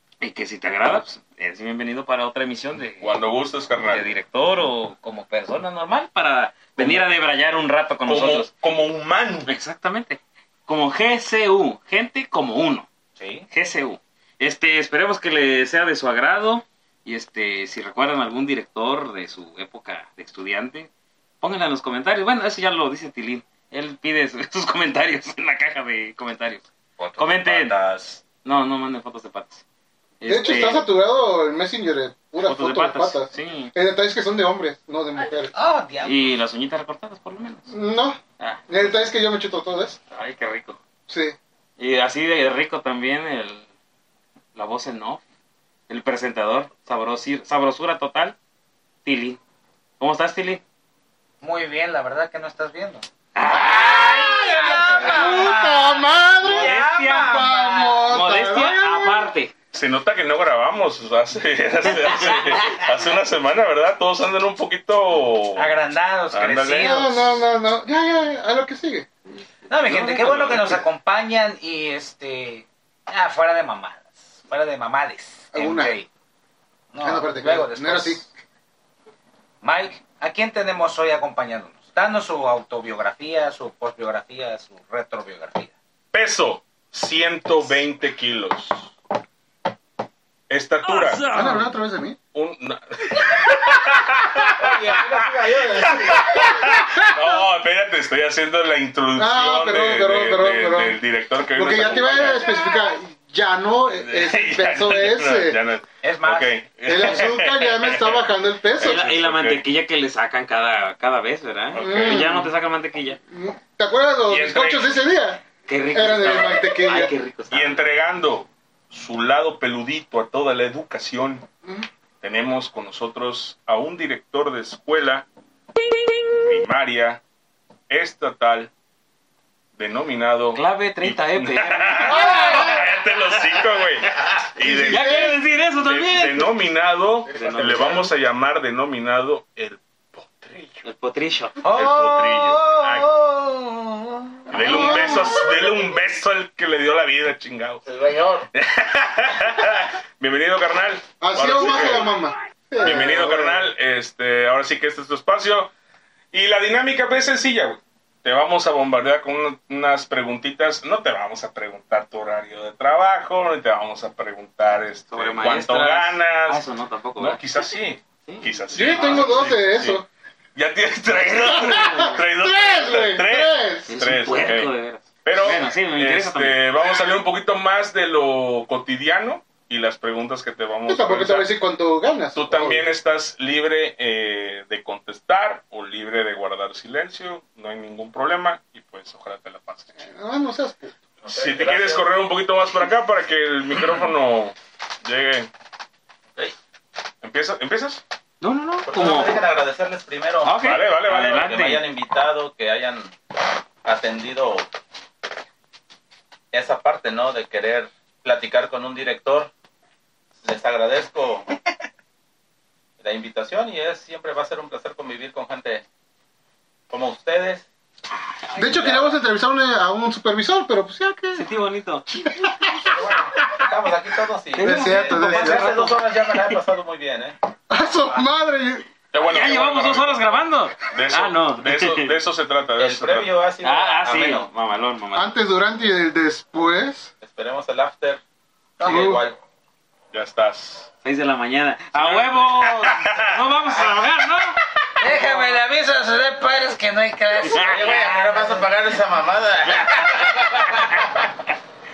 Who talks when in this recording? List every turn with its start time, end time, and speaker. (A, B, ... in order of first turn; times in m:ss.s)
0:00.2-0:03.1 A
0:03.0-0:04.1 B
0:03.8-0:08.5 A
0:06.8-0:07.1 B
0:08.0-0:09.5 B
0:09.5-0:12.9 A
0:13.2-0:13.5 C
0:13.5-0:20.9 A
0:21.4-0:26.6 A
0:27.0-0:28.2 C
0:27.2-0:27.7 A
0:28.4-0:29.6 A
0:30.2-0:30.8 A
0:30.2-0:35.5 D
0:32.4-0:33.7 A
0:35.5-0:36.3 C
0:36.0-0:37.7 A
0:37.7-0:40.0 D
0:38.4-0:39.1 A
0:40.1-0:40.8 A
0:41.1-0:41.4 D
0:41.8-0:43.7 A
0:44.5-0:45.2 A
0:45.9-0:48.4 A
0:49.0-0:49.4 A
0:50.0-0:50.6 A
0:51.4-0:53.0 C
0:53.3-0:55.0 A
0:53.7-0:59.3 D
0:53.9-0:58.1 C
0:56.4-0:57.3 A
0:58.1-0:59.5 A
0:59.7-1:05.8 B
1:02.1-1:02.8 A
1:05.6-1:07.3 C
1:06.3-1:07.1 B
1:06.7-1:09.1 D
1:09.7-1:16.1 C
1:09.8-1:10.8 A
1:15.5-1:16.0 D
1:16.9-1:18.3 C
1:17.0-1:18.2 D
1:19.6-1:25.7 C
1:26.1-1:28.9 B
1:30.5-1:31.3 B
1:30.8-1:31.7 A
1:31.3-1:32.2 D
1:32.3-1:42.6 B
1:34.6-1:36.7 E
1:35.4-1:37.4 D
1:39.2-1:41.0 D
1:41.5-1:45.6 D
1:44.0-1:48.2 B
1:46.0-1:46.6 C
1:46.8-1:49.0 D
1:48.8-1:49.6 B
1:48.8-1:53.2 A
1:51.7-1:52.2 B
1:51.8-1:52.5 D
1:53.3-1:55.4 D
1:54.3-1:55.0 B
1:55.6-1:57.8 A
1:55.9-1:57.1 D
1:57.5-2:01.4 B
2:02.2-2:05.3 B
2:06.3-2:07.2 B
2:07.9-2:08.7 B
2:09.8-2:20.8 B
2:10.5-2:12.8 A
2:12.1-2:12.6 D
2:14.9-2:16.6 A
2:17.3-2:18.1 A
2:17.3-2:18.1 E
2:20.8-2:21.6 A
2:21.6-2:25.2 C
2:21.6-2:23.2 B
2:24.5-2:27.8 B
2:24.6-2:25.3 D
2:27.8-2:28.5 E
2:28.5-2:32.1 B
2:31.2-2:33.7 D
2:32.8-2:35.7 B
2:36.3-2:46.6 B
2:45.1-2:47.4 A
2:47.2-2:50.0 B
2:48.3-2:49.3 A
2:48.7-2:50.0 D
2:50.5-2:54.7 B
2:51.1-2:52.2 A
2:51.4-2:53.9 D
2:53.9-2:56.6 A
2:55.2-3:01.5 B
3:00.8-3:02.8 D
3:02.3-3:10.0 B
3:10.0-3:10.9 D
3:11.2-3:12.2 E
3:11.3-3:15.5 B
3:17.2-3:18.0 B
3:18.4-3:19.4 A
3:18.9-3:20.6 E
3:20.4-3:21.8 A
3:20.6-3:21.4 B
3:21.2-3:23.1 E
3:23.8-3:24.7 E
3:26.5-3:29.5 E
3:30.4-3:31.5 E
3:33.0-3:35.8 E
3:36.9-3:37.7 E
3:38.5-3:41.5 D
3:38.6-3:39.1 E
3:41.3-3:42.3 A
3:42.2-3:42.9 D
3:42.9-3:47.4 E
3:44.5-3:46.6 A
3:44.6-3:45.8 D
3:47.7-3:48.9 D
3:49.1-3:53.3 B
3:49.3-3:52.1 A
3:52.8-3:54.5 E
3:53.6-3:55.3 A
3:55.1-3:57.1 D
3:57.2-3:58.2 E
3:58.8-3:59.4 E
3:58.8-3:59.2 D
4:00.1-4:00.9 B
4:01.0-4:05.6 A
4:01.9-4:03.4 B
4:05.0-4:08.7 C
4:07.4-4:07.9 A
4:07.6-4:11.2 E
4:10.6-4:10.9 A